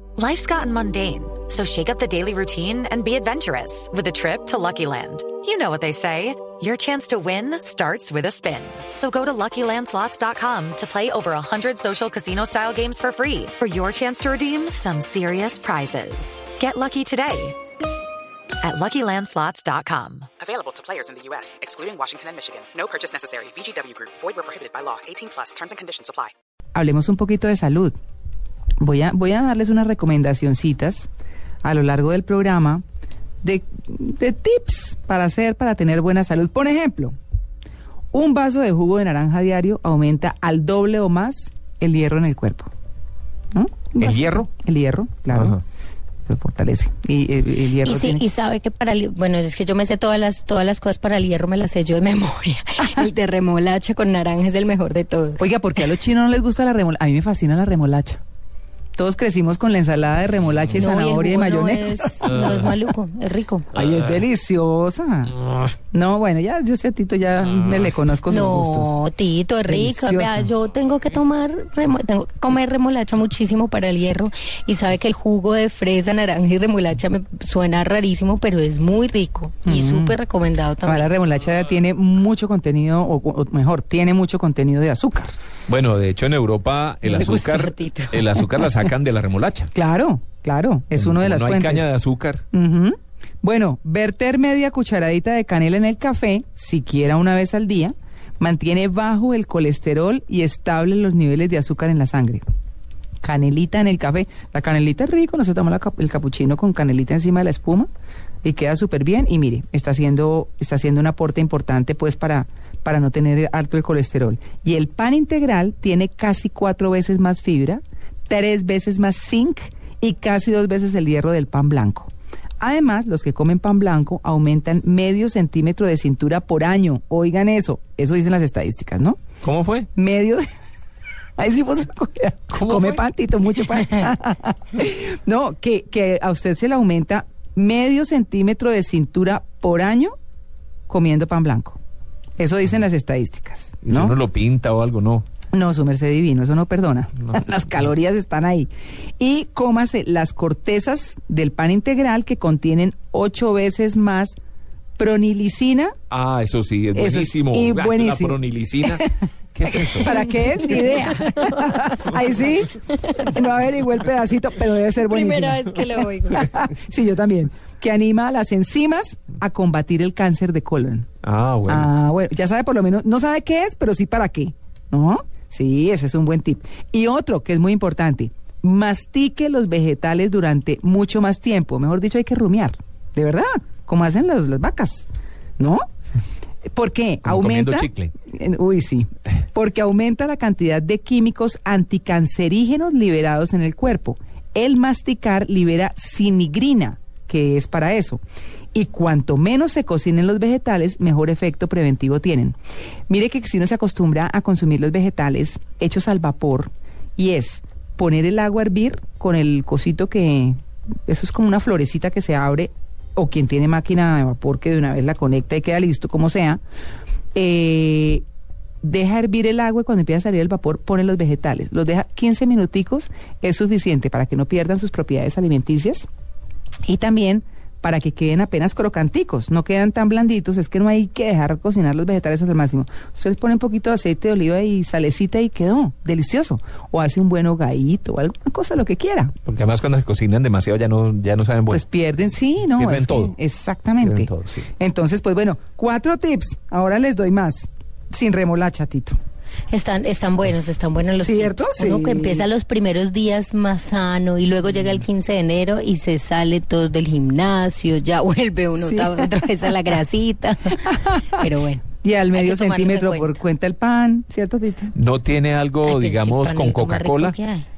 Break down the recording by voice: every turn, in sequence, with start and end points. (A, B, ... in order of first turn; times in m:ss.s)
0:00.2-0:17.6 A
0:18.6-0:20.3 A
0:20.5-0:26.3 B
0:26.7-0:27.9 C
0:28.8-0:31.1 C
0:31.6-0:32.8 C
0:33.4-0:37.1 C
0:38.1-0:42.7 C
0:43.5-0:45.6 C
0:44.0-0:44.5 D
0:45.3-0:45.6 D
0:46.3-0:48.2 C
0:47.8-0:55.8 E
0:55.4-0:58.2 C
0:59.0-1:02.7 C
1:00.7-1:03.7 E
1:03.7-1:05.4 C
1:05.9-1:08.9 C
1:08.3-1:21.1 E
1:09.7-1:10.5 C
1:19.6-1:20.2 C
1:20.8-1:25.3 C
1:25.7-1:29.7 D
1:27.0-1:28.2 E
1:29.7-1:31.9 C
1:31.0-1:32.4 D
1:32.5-1:42.4 C
1:43.2-1:47.9 C
1:48.4-2:09.2 C
2:09.4-2:09.9 D
2:09.9-2:10.4 C
2:11.4-2:20.1 C
2:12.6-2:13.0 D
2:20.9-2:21.8 C
2:22.4-2:24.2 C
2:23.8-2:25.2 D
2:25.5-2:34.3 C
2:35.0-2:35.9 C
2:36.1-2:40.2 D
2:36.9-2:38.4 C
2:39.8-2:51.1 C
2:40.6-2:41.9 E
2:43.0-2:43.3 E
2:45.0-2:46.6 E
2:51.2-2:51.9 D
2:51.7-3:05.1 C
3:05.6-3:05.8 C
3:06.7-3:18.2 C
3:07.2-3:08.1 D
3:18.7-3:22.6 C
3:23.1-3:36.6 C
3:37.3-3:38.2 C
3:38.8-3:46.0 C
3:46.8-3:59.3 C
3:59.4-4:01.8 D
4:01.7-4:09.2 C
4:02.7-4:03.3 D
4:04.0-4:04.6 D
4:09.7-4:23.4 E
4:11.2-4:12.4 C
4:18.8-4:19.7 C
4:20.8-4:21.5 C
4:22.0-4:24.9 C
4:24.9-4:27.4 D
4:25.8-4:27.6 E